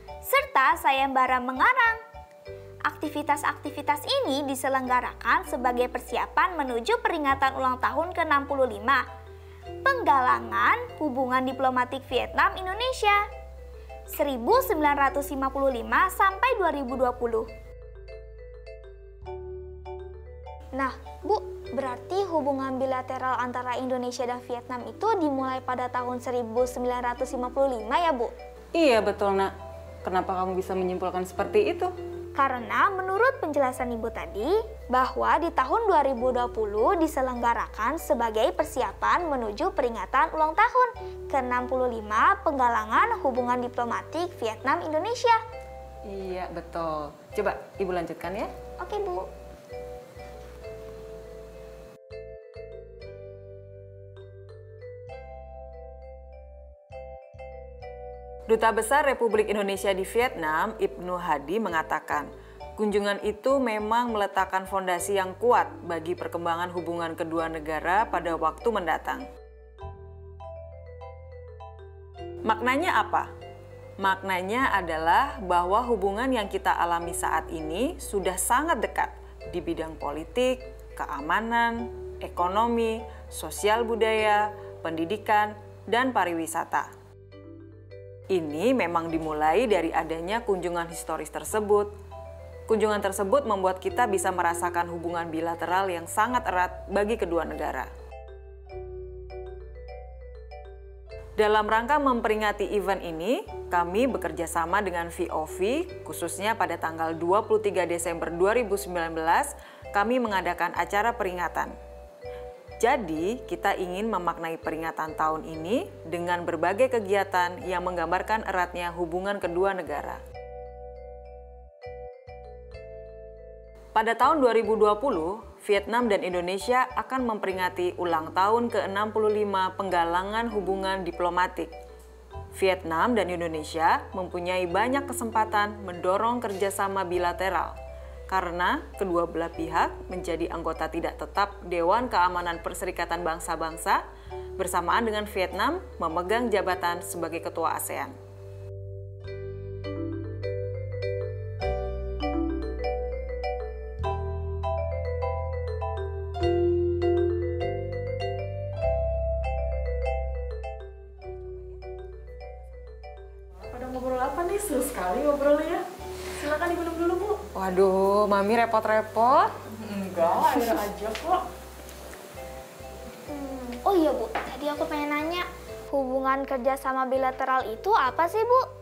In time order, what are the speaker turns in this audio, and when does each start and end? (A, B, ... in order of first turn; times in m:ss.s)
0:00.3-0:02.0 A
0:02.9-0:09.0 A
0:09.8-0:13.3 A
0:14.1-0:17.5 A
0:20.8-0:28.3 A
0:28.8-0:29.5 B
0:30.0-0:31.9 B
0:32.4-0:45.4 A
0:46.1-0:48.5 B
0:48.8-0:49.3 A
0:58.5-1:09.2 B
1:12.4-1:13.3 B
1:14.0-1:26.9 B
1:28.3-1:31.9 B
1:32.7-1:37.9 B
1:41.4-1:51.7 B
1:52.8-2:00.2 B
2:04.0-2:11.7 B
2:12.6-2:17.8 B
2:18.3-2:24.0 B
2:24.6-2:28.1 B
2:43.6-2:47.4 C
2:47.5-2:49.5 B
2:49.7-2:51.5 C
2:53.3-2:58.6 A